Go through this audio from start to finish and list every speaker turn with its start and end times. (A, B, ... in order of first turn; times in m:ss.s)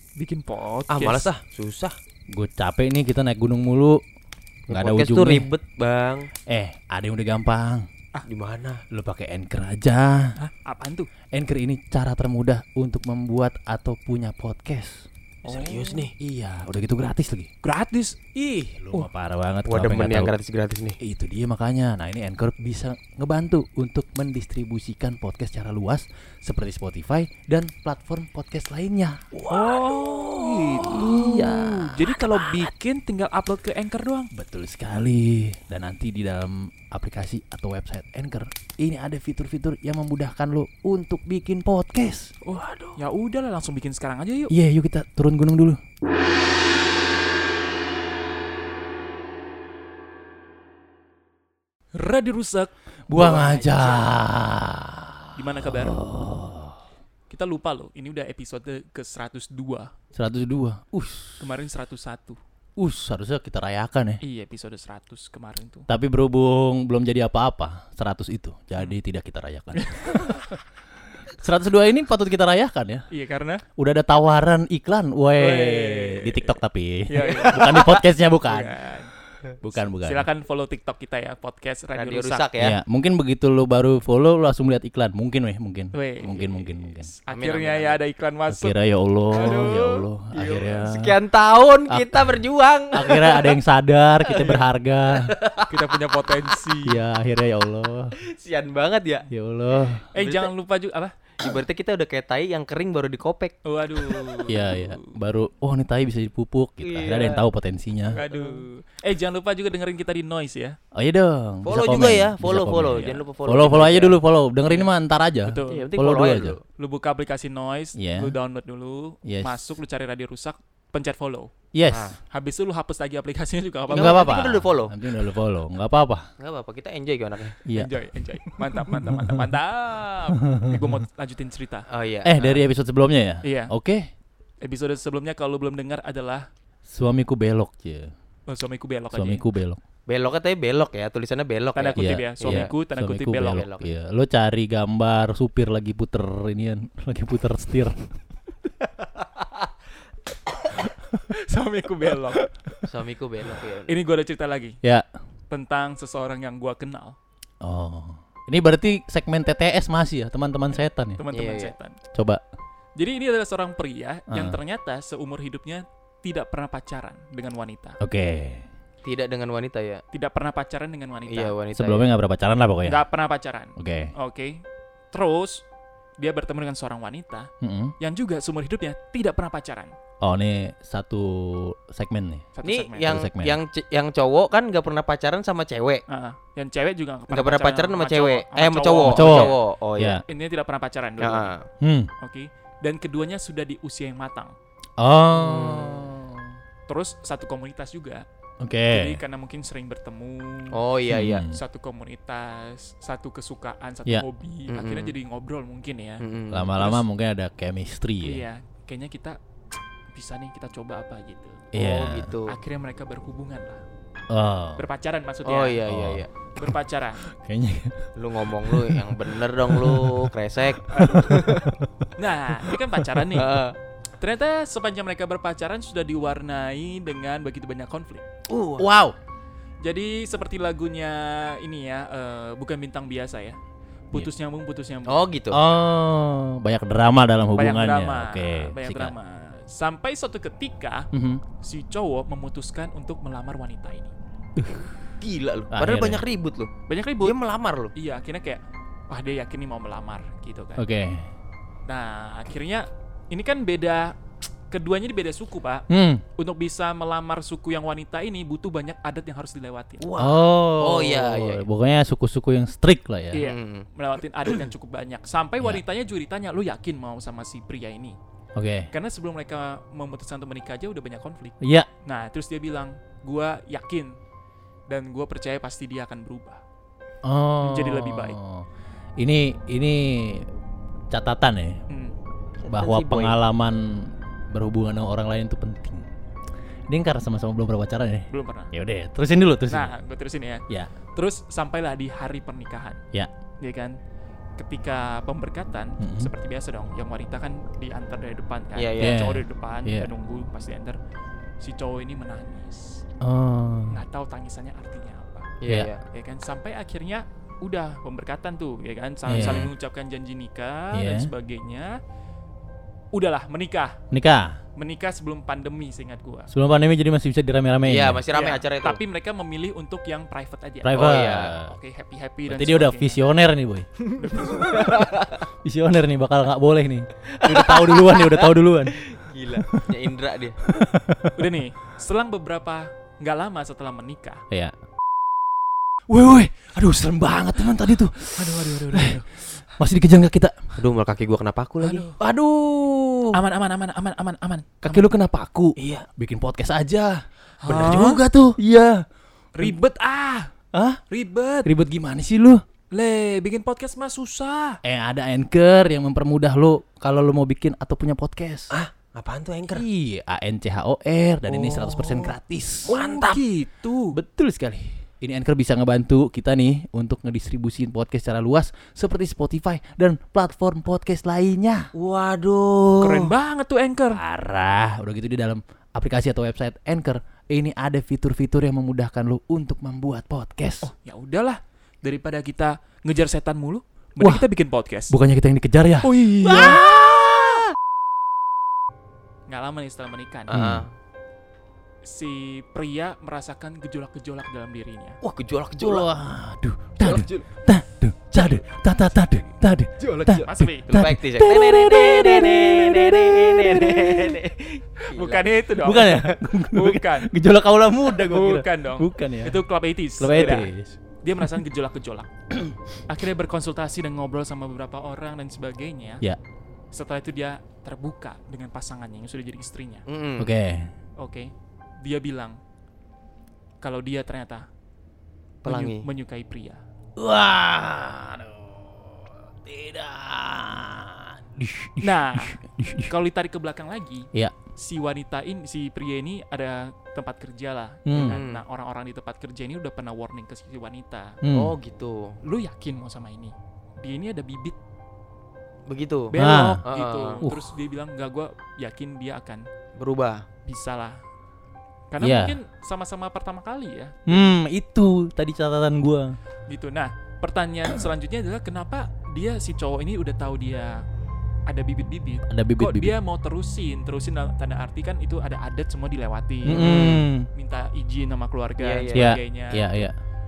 0:00.2-0:01.3 A
0:00.9-0:02.0 B
0:02.3-0:04.0 C
0:04.7-0:05.5 C
0:04.7-0:06.3 B
0:06.5-0:07.9 C
0:08.2-0:08.8 B
0:08.9-0:10.3 C
0:10.4-0:11.1 A
0:11.3-0:15.1 C
0:15.4-0:16.1 A
0:15.4-0:16.1 B
0:16.2-0:17.5 C
0:17.6-0:19.1 A
0:18.7-0:20.3 C
0:19.6-0:21.0 B
0:21.0-0:32.6 C
0:29.5-0:34.3 A
0:34.3-0:42.9 C
0:42.4-0:44.5 A
0:44.5-0:45.8 C
0:51.9-0:54.0 A
0:53.1-0:56.8 C
0:55.3-0:56.0 A
0:57.3-0:59.9 A
1:00.1-1:01.5 C
1:01.4-1:02.4 A
1:02.8-1:04.2 C
1:04.2-1:05.9 A
1:05.9-1:10.5 C
1:09.8-1:10.5 A
1:11.4-1:13.1 C
1:13.1-1:13.6 A
1:13.8-1:18.8 C
1:15.4-1:19.1 A
1:17.2-1:18.0 B
1:19.6-1:20.3 C
1:19.8-1:22.5 A
1:21.9-1:22.8 B
1:22.6-1:27.1 C
1:25.9-1:28.8 A
1:27.3-1:28.0 B
1:28.5-1:31.2 C
1:29.3-1:30.1 A
1:30.3-1:33.6 B
1:31.9-1:32.2 C
1:32.9-1:35.3 C
1:34.2-1:35.7 B
1:35.6-1:37.0 A
1:36.8-1:38.1 C
1:38.2-1:39.3 B
1:39.3-1:40.0 C
1:40.1-1:41.2 A
1:40.1-1:40.5 B
1:41.4-1:44.4 B
1:43.6-1:45.1 A
1:44.5-1:48.2 C
1:46.8-1:47.4 B
1:48.1-1:48.6 B
1:48.1-1:50.8 A
1:50.9-1:56.6 C
1:51.6-1:54.2 B
1:52.9-1:53.2 A
1:55.4-1:55.9 A
1:55.6-1:56.6 B
1:56.8-2:01.5 A
1:58.0-1:58.3 C
1:59.2-1:59.7 C
2:01.7-2:02.1 C
2:01.9-2:02.2 B
2:02.3-2:04.4 A
2:03.9-2:05.0 B
2:03.9-2:06.3 C
2:06.4-2:07.6 B
2:07.6-2:09.4 C
2:07.7-2:11.9 A
2:11.9-2:12.6 B
2:12.2-2:14.1 C
2:13.4-2:13.7 A
2:14.6-2:16.5 A
2:16.8-2:18.1 C
2:18.5-2:19.4 A
2:19.1-2:19.8 C
2:20.1-2:22.7 B
2:21.7-2:23.7 A
2:22.0-2:28.1 C
2:23.5-2:24.0 B
2:31.2-2:32.8 A
2:32.9-2:34.0 B
2:33.9-2:34.8 A
2:35.5-2:37.2 A
2:37.6-2:41.2 C
2:40.7-2:42.0 A
2:41.3-2:41.7 B
2:42.1-2:42.4 C
2:43.0-2:48.0 A
2:44.3-2:44.6 C
2:48.0-2:48.7 C
2:49.0-2:50.0 B
2:50.1-2:51.6 A
2:51.3-2:52.1 B
2:51.7-2:53.0 C
2:52.8-2:55.6 A
2:53.8-2:54.1 C
2:56.2-3:00.0 A
2:57.6-2:57.9 C
3:00.2-3:02.4 C
3:02.5-3:03.2 A
3:02.6-3:06.0 B
3:03.0-3:03.6 C
3:06.1-3:09.6 A
3:07.3-3:10.2 B
3:09.1-3:10.2 C
3:10.3-3:11.5 A
3:11.2-3:11.6 B
3:11.8-3:12.1 C
3:12.2-3:14.5 A
3:15.0-3:16.3 C
3:15.3-3:16.1 B
3:16.9-3:18.2 A
3:18.6-3:19.2 C
3:18.9-3:20.8 A
3:20.7-3:21.4 B
3:21.1-3:21.6 C
3:21.5-3:27.0 A
3:24.7-3:25.1 B
3:26.2-3:26.7 B
3:26.5-3:28.4 C
3:28.2-3:29.4 A
3:30.1-3:31.7 A
3:31.7-3:32.3 C
3:31.7-3:32.6 B
3:32.4-3:33.8 A
3:34.3-3:34.8 C
3:34.8-3:35.8 A
3:35.4-3:36.3 B
3:35.9-3:36.2 C
3:36.5-3:37.2 A
3:37.2-3:39.0 C
3:38.2-3:41.8 B
3:39.7-3:40.3 C
3:40.9-3:41.4 A
3:41.1-3:41.7 C
3:42.2-3:43.6 A
3:43.3-3:43.8 B
3:44.2-3:48.2 A
3:48.5-3:48.9 B
3:48.8-3:49.2 C
3:49.8-3:53.6 A
3:54.1-3:55.3 A
3:55.1-3:55.6 B
3:55.5-3:59.1 C
3:57.5-4:01.1 A
4:01.1-4:01.4 C
4:01.6-4:04.1 A
4:04.6-4:04.8 C
4:05.2-4:07.9 B
4:05.7-4:06.2 C
4:06.9-4:07.4 A
4:07.9-4:10.8 A
4:10.8-4:11.3 C
4:11.9-4:14.1 A
4:14.7-4:15.8 A
4:15.9-4:16.2 C
4:16.4-4:20.0 A
4:20.0-4:21.6 B
4:20.2-4:23.4 C
4:23.3-4:28.2 A
4:23.4-4:23.9 B
4:28.5-4:28.9 C
4:28.9-4:34.2 A
4:31.6-4:31.9 C
4:34.9-4:36.6 A
4:37.2-4:38.6 C
4:37.6-4:38.4 A
4:39.2-4:40.5 C
4:41.1-4:41.8 C
4:41.9-4:42.2 A
4:42.6-4:43.4 B
4:42.7-4:46.1 C
4:46.9-4:49.9 C
4:48.3-4:48.7 A
4:49.7-4:50.6 A
4:51.2-4:53.0 A
4:53.6-4:54.0 A
4:54.6-5:01.0 A
4:56.0-4:56.3 C
4:58.7-4:59.2 B
4:59.0-5:00.1 C
5:01.6-5:03.0 A
5:03.2-5:04.0 C
5:03.9-5:05.6 A
5:05.6-5:06.0 B
5:06.1-5:12.0 A
5:09.2-5:09.7 C
5:09.4-5:09.6 B
5:10.9-5:11.3 C
5:13.1-5:14.0 A
5:14.1-5:14.6 C
5:14.8-5:16.5 A
5:16.5-5:18.2 C
5:17.8-5:19.0 B
5:18.3-5:23.2 A
5:20.8-5:21.7 C
5:20.9-5:21.6 B
5:22.4-5:23.9 C
5:24.1-5:25.0 A
5:24.7-5:29.0 C
5:24.8-5:25.4 B
5:27.3-5:30.6 B
5:30.7-5:31.3 C
5:31.3-5:34.4 A
5:36.1-5:40.8 C
5:38.4-5:39.3 A
5:40.8-5:42.1 B
5:41.8-5:42.2 A
5:42.2-5:43.4 C
5:43.3-5:45.1 A
5:44.8-5:49.0 C
5:45.8-5:46.0 B
5:47.6-5:48.2 A
5:49.5-5:50.5 A
5:50.7-5:51.0 C
5:51.1-5:51.7 A
5:51.6-5:52.6 C
5:52.9-5:54.8 A
5:54.8-5:58.7 C
5:58.7-5:59.8 B
5:59.7-6:03.0 C
6:01.4-6:02.4 B
6:02.8-6:04.2 A
6:02.9-6:03.4 B
6:04.1-6:11.9 C
6:11.9-6:13.3 B
6:13.0-6:14.2 A
6:14.1-6:20.9 C
6:20.8-6:25.1 A
6:24.2-6:24.4 C
6:25.1-6:27.3 C
6:26.0-6:27.0 A
6:29.5-6:30.5 A
6:30.5-6:30.9 B
6:30.5-6:30.8 C
6:32.0-6:35.2 A
6:35.2-6:36.1 B
6:35.8-6:44.4 C
6:37.0-6:37.4 B
6:40.0-6:45.5 B
6:40.4-6:40.9 A
6:45.0-6:47.3 A
6:45.8-6:49.6 C
6:48.0-6:52.3 A
6:50.2-6:51.0 C
6:53.0-6:56.2 A
6:56.9-7:00.0 A
7:00.0-7:00.5 B
7:00.4-7:00.9 C
7:01.2-7:02.6 A
7:03.8-7:04.7 A
7:05.6-7:06.0 B
7:05.6-7:06.8 A
7:07.2-7:13.1 C
7:12.0-7:21.4 A
7:18.0-7:18.4 C
7:18.2-7:18.6 B
7:21.4-7:21.7 C
7:21.5-7:22.4 B
7:22.4-7:24.8 A
7:25.9-7:27.4 B
7:26.3-7:29.6 A
7:26.4-7:26.8 C
7:27.4-7:27.7 C
7:30.0-7:30.4 B
7:30.6-7:31.2 A
7:32.1-7:34.5 A
7:32.2-7:32.6 C
7:34.2-7:36.3 C
7:36.7-7:41.0 A
7:41.7-7:50.1 A
7:42.5-7:43.2 C
7:46.6-7:47.5 C
7:46.7-7:47.3 B
7:48.8-7:49.4 B
7:49.1-7:50.1 C